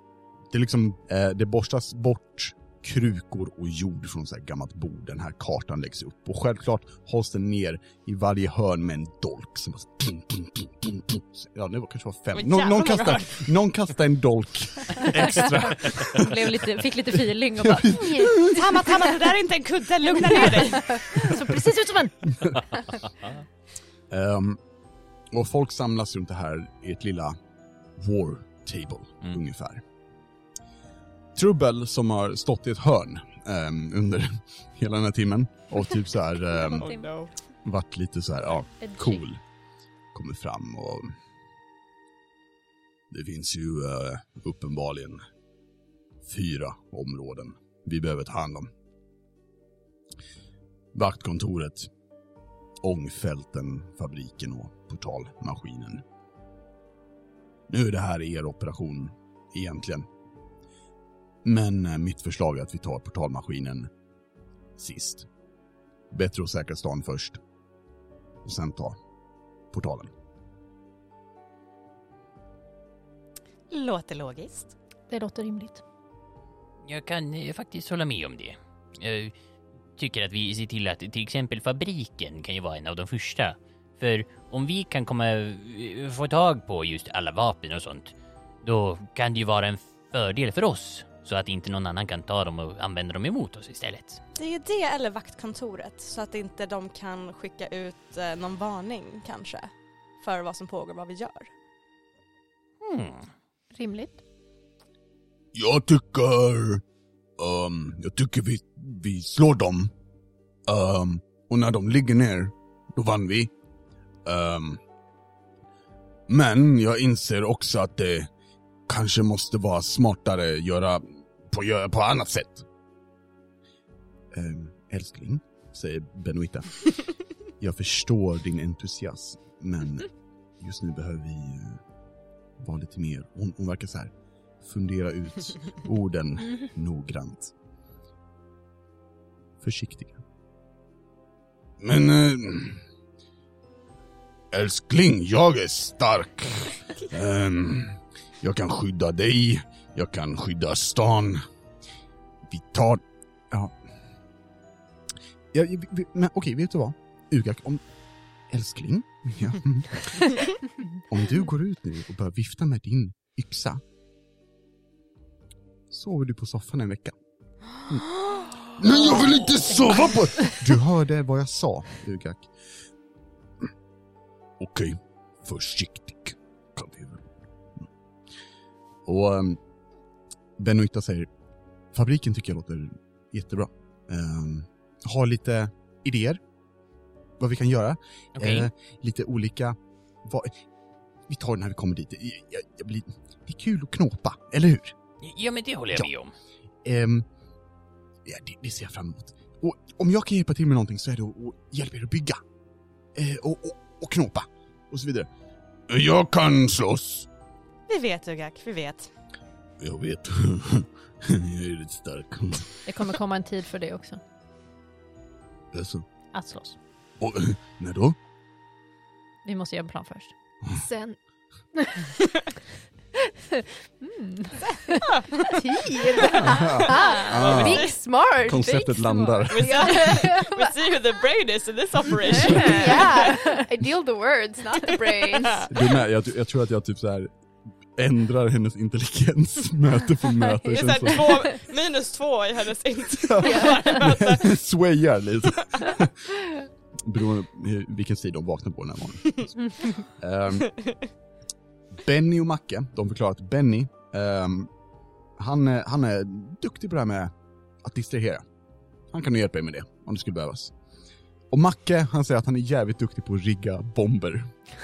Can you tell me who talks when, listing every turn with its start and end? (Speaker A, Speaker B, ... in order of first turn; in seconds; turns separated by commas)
Speaker A: 0.5-16.4, Speaker B: 12.3-13.4, Speaker C: 15.1-18.5, Speaker A: 17.6-18.6, Speaker B: 18.5-21.0, Speaker C: 20.2-22.4, Speaker A: 24.1-24.6, Speaker A: 25.3-27.4, Speaker A: 28.0-29.8, Speaker A: 31.3-36.9, Speaker B: 36.5-37.3, Speaker C: 36.8-37.1, Speaker A: 37.6-39.4, Speaker C: 38.8-39.2, Speaker A: 40.1-41.1, Speaker A: 43.1-45.2, Speaker A: 46.2-48.7, Speaker A: 50.9-51.9, Speaker A: 52.8-56.0, Speaker A: 57.7-60.1, Speaker A: 61.4-63.9, Speaker A: 64.8-65.3, Speaker A: 66.1-67.4, Speaker A: 68.4-69.0, Speaker A: 69.7-70.1, Speaker B: 73.7-74.7, Speaker D: 75.1-75.8, Speaker C: 75.1-75.4, Speaker E: 76.8-79.3, Speaker E: 80.0-94.2, Speaker B: 94.4-101.5, Speaker E: 102.8-103.3, Speaker D: 103.7-104.2, Speaker A: 105.5-106.8, Speaker A: 107.4-109.9, Speaker A: 110.7-113.5, Speaker A: 114.2-114.8, Speaker A: 116.3-118.3, Speaker A: 118.9-122.7, Speaker A: 124.3-127.0, Speaker A: 127.5-131.8, Speaker A: 132.6-137.5, Speaker A: 139.6-140.2, Speaker A: 141.8-142.8, Speaker A: 144.5-151.4, Speaker A: 152.5-153.7, Speaker A: 155.5-157.8, Speaker A: 158.5-160.5, Speaker A: 161.1-163.8, Speaker A: 165.9-167.1, Speaker A: 168.7-172.5, Speaker A: 174.6-177.2, Speaker A: 179.1-179.6, Speaker A: 180.6-181.3, Speaker A: 181.9-186.4, Speaker A: 187.4-190.6, Speaker E: 188.3-188.7, Speaker A: 191.3-194.9, Speaker E: 195.2-196.3, Speaker A: 196.8-197.2, Speaker A: 198.2-202.4, Speaker A: 203.1-205.3, Speaker A: 205.9-207.3, Speaker B: 207.9-209.1, Speaker A: 209.8-212.8, Speaker C: 212.8-214.2, Speaker A: 215.7-216.0, Speaker C: 216.3-216.8, Speaker A: 217.2-218.2, Speaker C: 219.4-220.3, Speaker D: 220.7-221.2, Speaker C: 224.1-225.0, Speaker B: 225.0-225.5, Speaker D: 225.5-230.8, Speaker B: 226.2-227.9, Speaker A: 226.4-227.9, Speaker C: 226.9-227.4, Speaker A: 228.4-230.1, Speaker B: 229.5-233.4, Speaker D: 232.3-235.7, Speaker A: 232.4-232.8, Speaker B: 234.9-235.7, Speaker A: 235.7-237.3, Speaker A: 237.9-241.5, Speaker B: 240.7-244.4, Speaker A: 243.3-246.2, Speaker D: 243.4-244.0, Speaker A: 247.0-250.7, Speaker A: 252.0-254.7, Speaker A: 255.4-257.3, Speaker A: 257.8-258.4, Speaker A: 259.1-260.7, Speaker A: 261.5-264.7